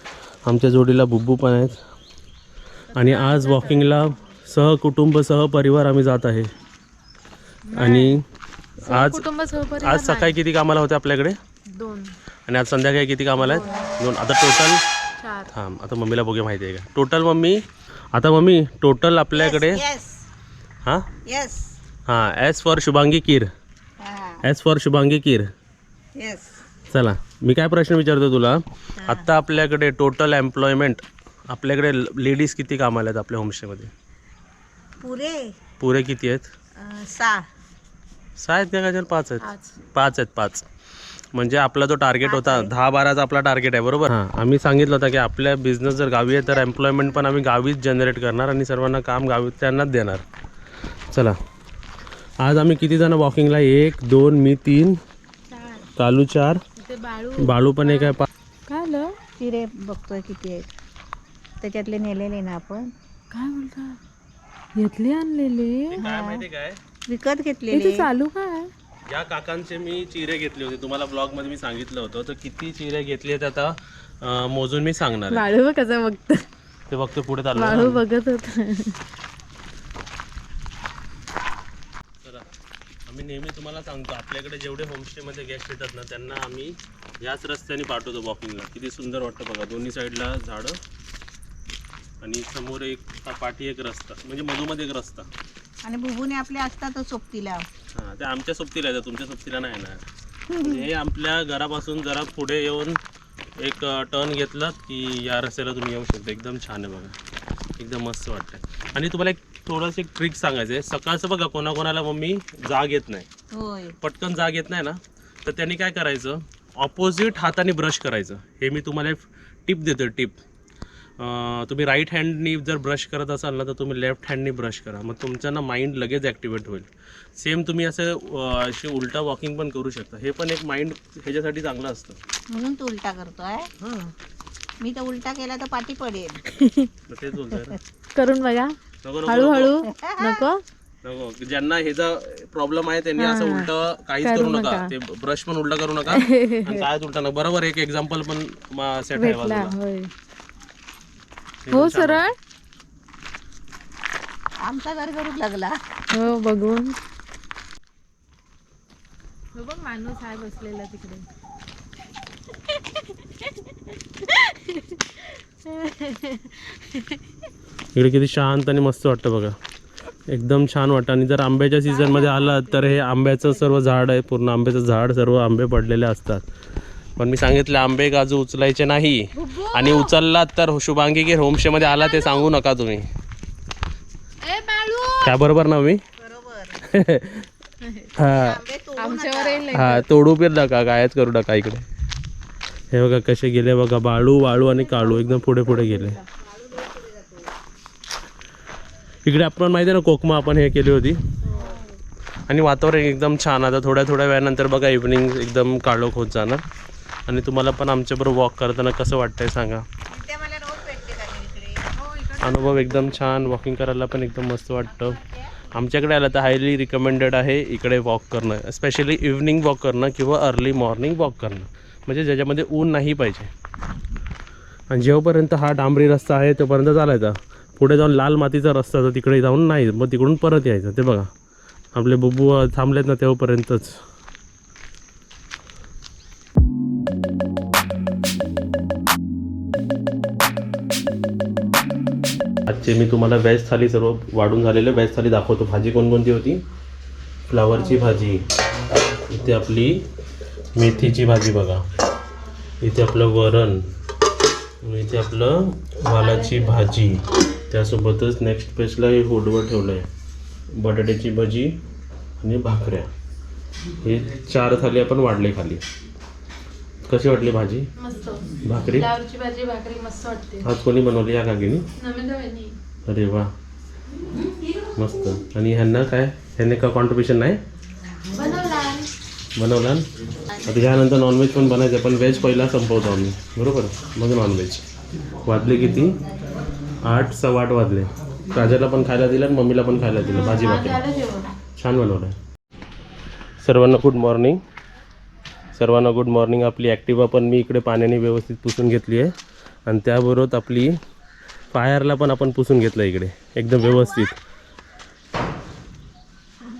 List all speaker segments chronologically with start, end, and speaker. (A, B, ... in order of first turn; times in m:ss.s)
0:00.4-0:01.8 A
0:02.9-0:04.1 B
0:02.9-0:06.5 A
0:07.7-0:08.2 B
0:07.7-0:08.2 A
0:08.9-0:09.2 A
0:08.9-0:10.4 B
0:09.8-0:11.4 A
0:11.7-0:12.1 B
0:12.5-0:14.8 A
0:13.4-0:13.9 B
0:15.2-0:15.5 B
0:15.5-0:19.8 A
0:19.3-0:20.2 C
0:21.2-0:21.7 C
0:22.1-0:23.5 A
0:24.0-0:24.4 C
0:24.4-0:25.5 A
0:26.2-0:26.5 C
0:26.9-0:33.9 A
0:29.0-0:29.3 C
0:35.0-0:35.5 C
0:35.8-0:36.5 A
0:36.8-0:37.4 C
0:38.4-0:40.6 A
0:39.4-0:39.7 B
0:41.3-0:50.2 A
0:42.2-0:42.7 C
0:51.1-0:51.4 A
0:52.4-0:55.0 A
0:55.5-0:55.8 B
0:56.0-0:56.6 A
0:56.8-0:58.1 B
0:57.4-0:58.3 A
0:58.7-0:59.1 B
0:59.4-1:00.7 C
1:01.6-1:02.9 C
1:03.3-1:04.0 B
1:04.7-1:06.0 B
1:05.9-1:06.8 A
1:06.0-1:06.4 C
1:07.1-1:08.1 C
1:07.7-1:08.7 B
1:09.1-1:15.4 A
1:15.3-1:16.4 B
1:16.9-1:18.0 A
1:17.5-1:19.0 B
1:22.2-1:22.5 A
1:23.1-1:30.8 A
1:32.2-1:35.3 A
1:35.8-1:37.6 C
1:37.9-1:40.0 A
1:40.5-1:40.8 C
1:40.6-1:43.0 A
1:43.6-1:47.2 A
1:47.8-1:53.3 A
1:53.5-1:53.9 C
1:54.0-2:00.4 A
2:01.2-2:12.2 A
2:12.5-2:13.7 C
2:13.8-2:14.1 A
2:14.8-2:16.4 C
2:16.5-2:16.9 B
2:17.1-2:17.8 A
2:18.1-2:20.6 B
2:19.0-2:19.7 A
2:19.8-2:20.5 C
2:21.0-2:29.7 A
2:23.2-2:23.7 B
2:24.2-2:24.9 B
2:26.1-2:26.8 B
2:29.2-2:30.1 B
2:31.6-2:32.2 A
2:31.7-2:32.3 B
2:34.6-2:35.8 C
2:36.1-2:37.0 B
2:39.5-2:41.2 B
2:44.2-2:47.2 B
2:47.9-2:49.6 A
2:50.3-2:56.4 A
2:51.9-2:52.8 B
2:57.2-3:03.1 A
2:59.3-3:00.1 B
3:01.8-3:02.5 B
3:04.4-3:05.3 B
3:05.2-3:06.0 A
3:06.2-3:06.8 C
3:06.8-3:07.5 A
3:07.8-3:08.1 B
3:08.2-3:08.6 A
3:08.2-3:09.7 C
3:09.0-3:10.0 B
3:09.7-3:11.8 A
3:12.9-3:16.2 A
3:15.7-3:17.5 C
3:19.2-3:21.2 A
3:21.4-3:21.8 C
3:21.5-3:21.8 B
3:22.5-3:26.6 A
3:27.3-3:29.8 A
3:30.1-3:33.2 C
3:32.4-3:35.2 A
3:35.0-3:35.6 C
3:35.7-3:43.5 A
3:44.9-3:51.3 A
3:51.9-3:54.0 A
4:02.6-4:06.6 A
4:07.5-4:08.4 A
4:09.3-4:10.0 A
4:10.7-4:11.8 A
4:12.8-4:13.9 A
4:14.8-4:20.1 A
4:16.1-4:16.9 B
4:20.7-4:21.8 A
4:22.4-4:23.1 A
4:24.0-4:25.8 A
4:27.0-4:27.9 A
4:28.0-4:30.6 B
4:28.6-4:29.1 A
4:30.6-4:31.9 A
4:32.0-4:32.8 B
4:33.0-4:33.5 A
4:34.3-4:34.9 B
4:34.9-4:37.6 A
4:38.3-4:39.1 B
4:39.6-4:40.0 A
4:40.6-4:44.8 A
4:45.4-4:46.2 A
4:47.0-4:51.0 A
4:50.3-4:51.5 B
4:51.8-4:52.4 A
4:53.6-4:54.6 A
4:55.7-4:59.3 A
4:59.9-5:01.0 A
5:01.7-5:04.4 A
5:03.8-5:04.1 B